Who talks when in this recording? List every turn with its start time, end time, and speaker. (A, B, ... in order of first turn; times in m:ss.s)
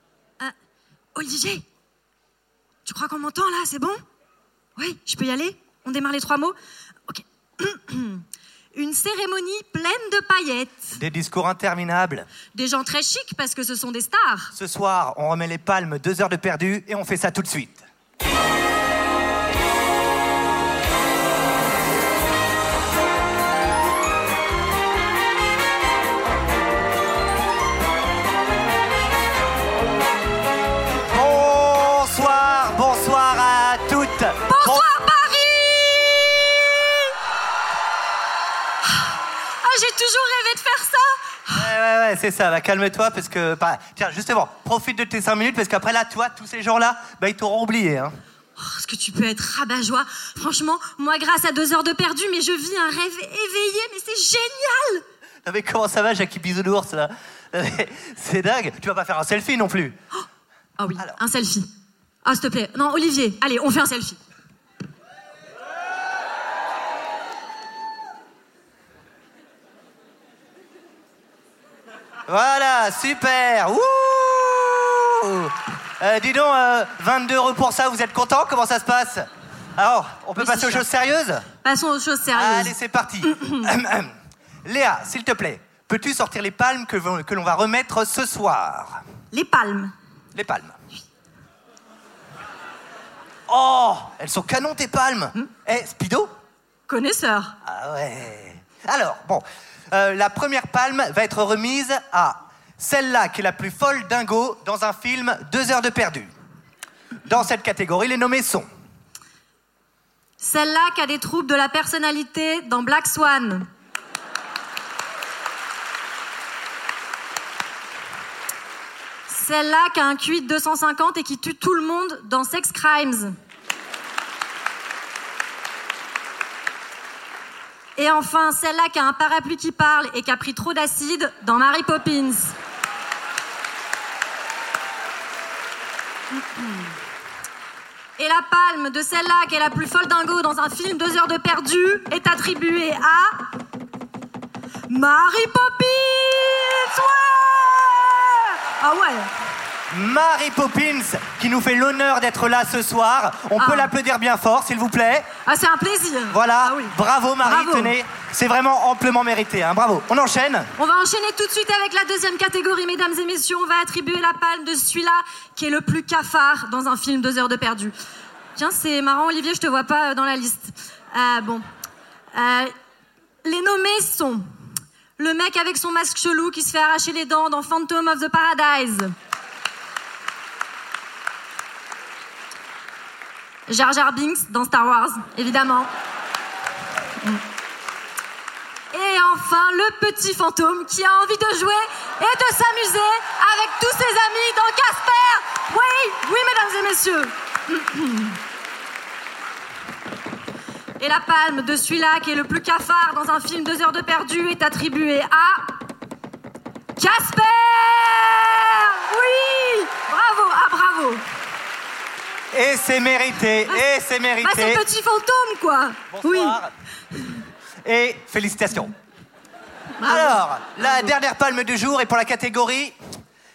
0:01.2-0:01.6 A
0:02.8-0:04.0 A
0:04.8-0:06.6 A
0:07.1-0:11.0 A
0:11.0-0:12.3 B
0:12.5-0:14.5 A
0:14.6-0:17.8 B
0:31.1-0:34.9 B
0:34.5-0:37.2 A
0:38.8-0:41.7 A
0:41.6-0:48.2 B
0:48.6-0:55.0 A
0:55.4-1:00.0 B
1:00.8-1:01.7 A
1:02.2-1:04.2 A
1:12.3-1:21.4 B
1:20.4-1:20.8 A
1:21.6-1:22.8 A
1:22.3-1:24.1 B
1:23.3-1:23.6 A
1:24.6-1:29.0 B
1:29.3-1:29.9 A
1:30.4-1:30.8 B
1:33.5-1:36.3 B
1:36.9-1:37.6 A
1:37.6-1:46.3 B
1:47.2-1:48.7 B
1:50.4-1:53.7 A
1:59.3-2:03.4 A
2:08.0-2:12.6 A
2:16.3-2:16.9 A
2:18.2-2:23.4 A
2:24.9-2:29.3 A
2:29.9-2:35.3 B
2:33.6-2:33.9 A
2:35.4-2:38.0 A
2:36.3-2:40.7 B
2:40.8-2:47.9 A
2:48.6-2:51.6 A
2:52.3-2:52.7 A
2:53.4-2:54.4 A
2:55.2-2:59.1 A
3:03.7-3:05.9 A
3:08.9-3:18.4 A
3:21.0-3:25.7 A
3:27.0-3:31.2 A
3:32.5-3:34.8 B
3:34.4-3:36.6 A
3:36.1-3:36.7 B
3:37.8-3:38.9 B
3:40.0-3:41.1 A
3:40.0-3:43.0 B